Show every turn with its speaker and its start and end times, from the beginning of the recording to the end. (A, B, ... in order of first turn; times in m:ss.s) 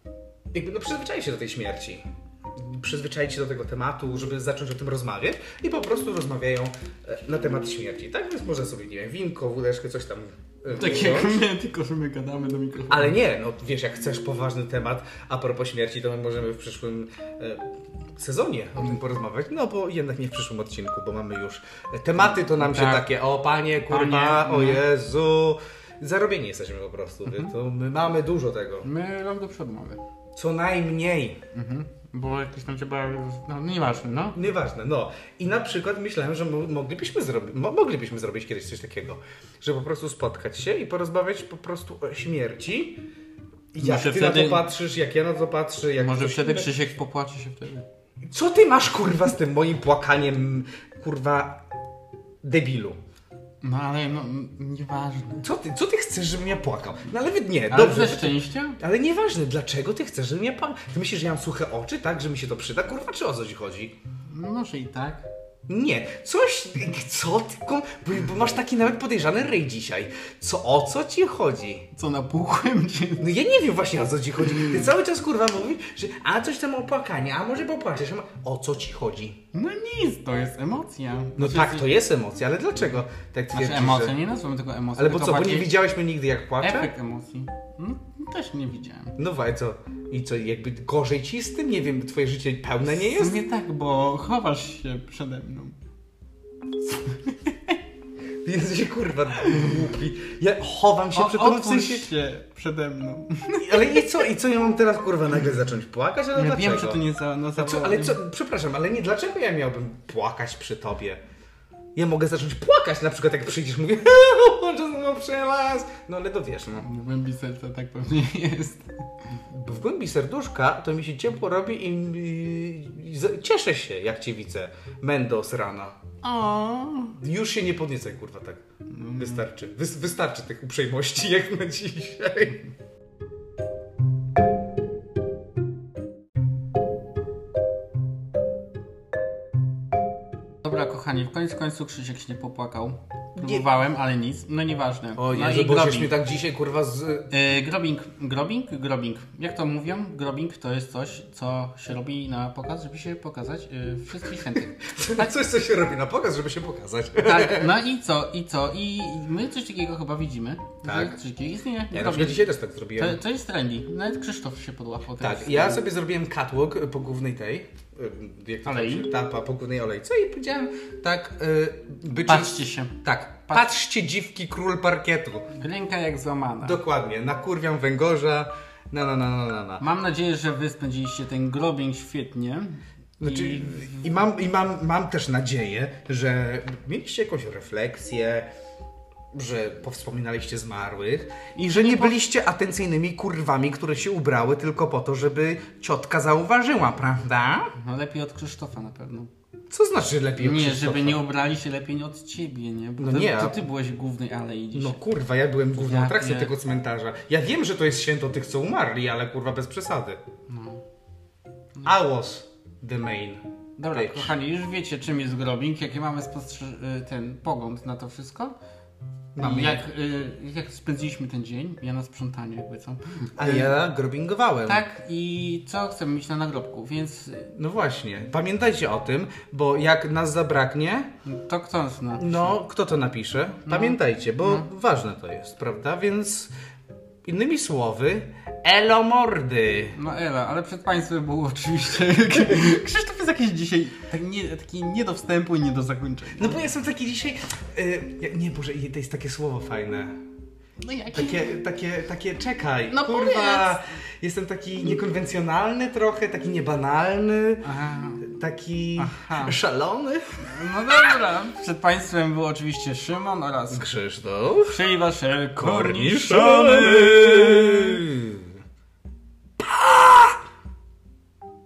0:00.5-0:11.5 A
0:10.7-0:13.2 B
0:12.9-0:28.9 A
0:22.3-0:23.1 B
0:23.9-0:24.8 B
0:27.3-0:27.5 B
0:28.8-0:30.0 B
0:30.4-0:31.4 A
0:31.5-0:34.4 B
0:34.3-0:43.0 A
0:43.7-0:46.8 A
0:43.8-0:44.7 B
0:46.0-0:47.9 B
0:48.2-0:51.6 A
0:52.4-0:53.0 A
0:53.6-0:55.4 B
0:55.4-1:04.0 A
0:57.7-0:58.8 B
1:04.3-1:05.3 B
1:05.7-1:11.9 A
1:11.9-1:13.4 B
1:13.2-1:19.4 A
1:14.4-1:14.8 B
1:19.5-1:21.9 B
1:21.4-1:24.2 A
1:23.5-1:25.7 B
1:25.0-1:26.9 A
1:26.6-1:29.2 B
1:29.2-1:33.4 A
1:32.9-1:35.8 B
1:36.8-1:37.8 B
1:38.4-1:42.1 A
1:39.4-1:39.7 B
1:41.2-1:44.2 B
1:43.6-1:47.0 A
1:46.3-1:48.2 B
1:47.6-1:51.2 A
1:52.0-1:56.9 A
1:56.8-1:58.9 B
1:59.4-2:06.0 A
2:06.2-2:07.2 B
2:07.2-2:08.6 A
2:08.9-2:09.5 B
2:09.2-2:12.6 A
2:20.6-2:26.1 B
2:23.4-2:23.7 A
2:25.2-2:27.3 A
2:27.3-2:35.3 B
2:34.7-2:37.7 A
2:37.2-2:42.4 B
2:40.8-2:41.2 A
2:41.9-2:43.2 A
2:43.0-2:45.8 B
2:45.2-2:55.5 A
2:48.6-2:49.1 B
2:52.2-2:53.7 B
2:55.6-2:56.8 B
2:56.6-2:59.8 A
2:59.8-3:04.0 B
3:03.2-3:08.5 A
3:09.3-3:17.7 A
3:11.6-3:12.2 B
3:17.8-3:19.3 B
3:19.7-3:21.2 A
3:20.4-3:25.0 B
3:23.0-3:23.6 A
3:24.8-3:30.2 A
3:25.8-3:26.5 B
3:30.5-3:30.8 B
3:31.8-3:34.3 A
3:33.8-3:38.6 B
3:39.4-3:39.9 A
3:39.4-3:43.7 B
3:43.4-3:44.8 A
3:44.7-3:47.5 B
3:47.5-3:51.1 A
3:51.2-3:52.6 B
3:52.2-3:56.5 A
3:53.7-3:54.7 B
3:57.3-4:00.0 A
3:59.9-4:06.7 B
4:06.4-4:10.2 A
4:10.8-4:11.5 B
4:11.1-4:17.7 A
4:12.9-4:13.8 B
4:17.6-4:18.3 B
4:18.2-4:21.2 A
4:19.0-4:19.6 B
4:20.4-4:23.9 B
4:23.7-4:24.8 A
4:24.7-4:28.0 B
4:25.6-4:28.6 A
4:29.6-4:30.4 A